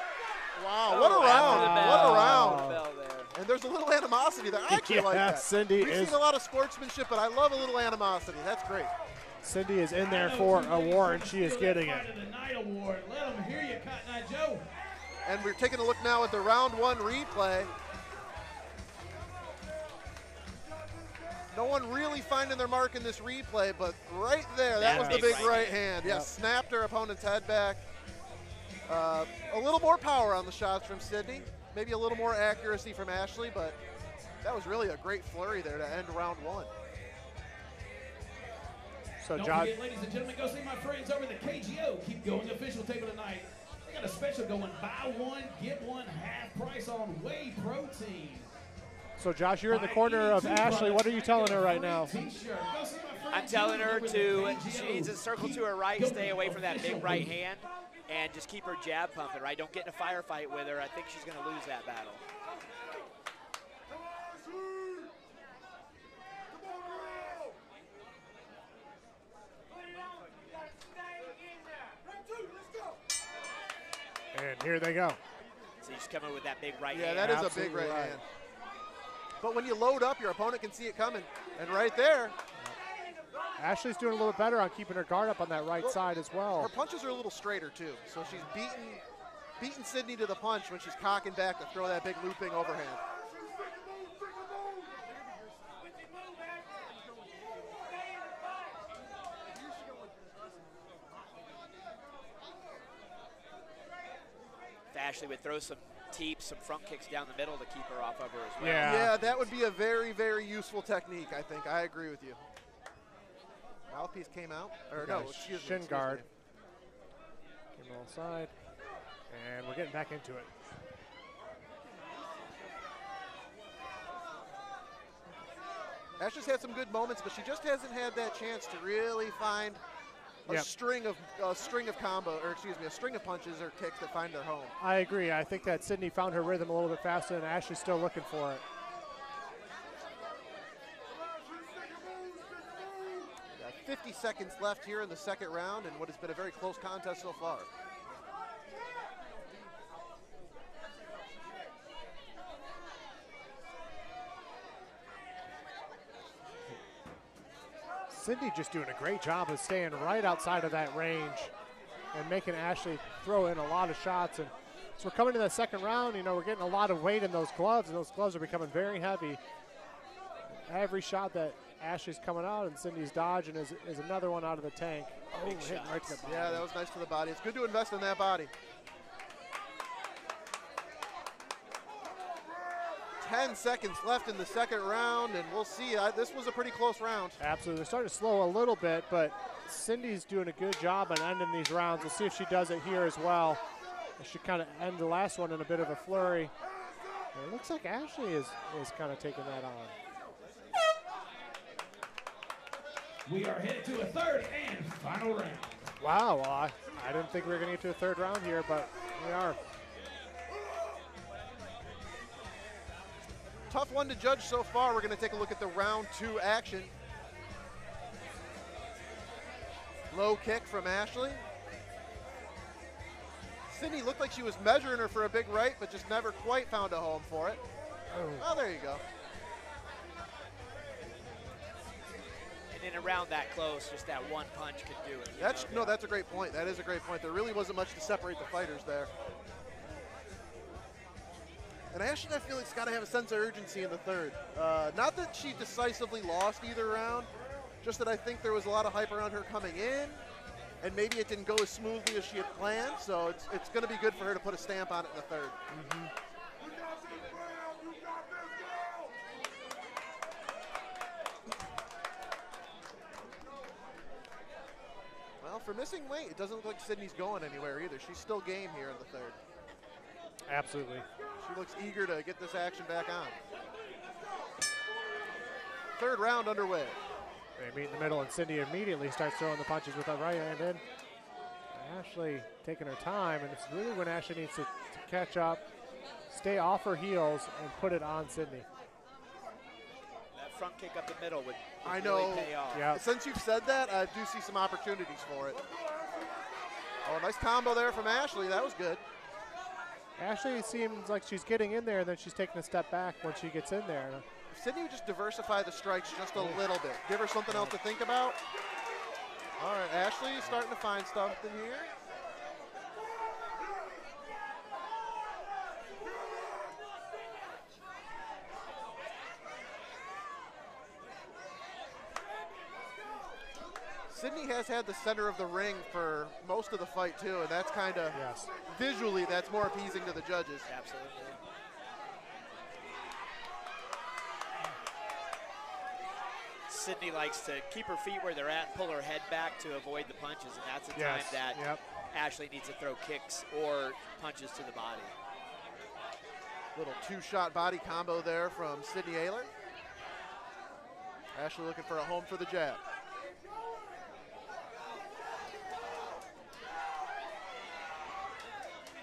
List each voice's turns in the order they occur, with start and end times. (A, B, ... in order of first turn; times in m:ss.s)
0:00.6-0:02.7 A
0:00.9-0:03.4 B
0:01.2-0:02.8 C
0:03.4-0:08.9 A
0:04.7-0:06.2 C
0:09.4-0:12.1 C
0:10.0-0:14.6 D
0:15.2-0:17.7 A
0:21.5-0:27.8 A
0:24.8-0:25.8 B
0:24.8-0:25.4 C
0:26.0-0:26.3 C
0:28.9-0:33.8 A
0:34.4-0:36.7 A
0:39.2-0:39.8 C
0:39.3-0:48.5 D
0:49.2-0:52.2 C
0:49.7-0:57.3 D
0:53.3-1:02.2 B
1:14.3-1:15.2 C
1:15.8-1:17.4 B
1:16.9-1:18.2 A
1:17.2-1:18.2 C
1:19.4-1:22.4 A
1:23.6-1:26.7 C
1:26.6-1:29.0 A
1:29.6-1:33.0 A
1:44.9-1:49.1 B
1:48.6-1:49.3 C
1:48.8-1:52.4 A
1:53.9-1:56.3 A
1:55.0-1:56.2 C
1:57.8-1:58.5 C
1:59.3-2:00.5 C
2:06.2-2:09.8 A
2:10.5-2:14.7 A
2:14.8-2:18.6 C
2:23.6-2:27.7 A
2:38.1-2:41.5 C
2:42.1-2:49.4 C
2:50.5-2:56.7 C
2:55.3-2:56.2 B
2:56.2-2:58.5 A
3:03.2-3:07.4 A
3:07.4-3:13.6 C
3:14.2-3:16.5 C
3:17.3-3:19.9 C
3:23.3-3:25.9 D
3:26.0-3:29.6 C
3:33.7-3:36.9 A
3:40.1-3:41.4 A
3:43.7-3:47.6 A
3:48.1-3:48.5 C
3:48.4-3:49.0 A
3:52.7-3:56.0 B
3:55.4-3:59.1 A
4:01.9-4:07.3 A
4:07.8-4:10.2 A
4:10.8-4:15.6 A
4:15.7-4:16.1 C
4:25.4-4:29.4 A
4:30.5-4:31.1 C
4:31.4-4:33.4 A
4:36.0-4:37.0 A
4:37.6-4:40.8 C
4:41.7-4:45.6 C
4:46.3-4:48.7 C
4:50.3-4:52.9 B
4:51.8-4:55.6 A
4:52.7-4:53.0 C
4:57.0-4:59.0 A
5:00.2-5:04.2 C
5:04.5-5:08.4 A
5:06.4-5:06.6 C
5:07.5-5:07.8 C
5:09.6-5:11.9 A
5:24.1-5:30.7 A
5:28.1-5:28.5 C
5:30.7-5:31.4 B
5:36.7-5:45.1 B
5:40.9-5:41.8 C
5:46.8-5:49.5 A
5:51.3-5:52.8 A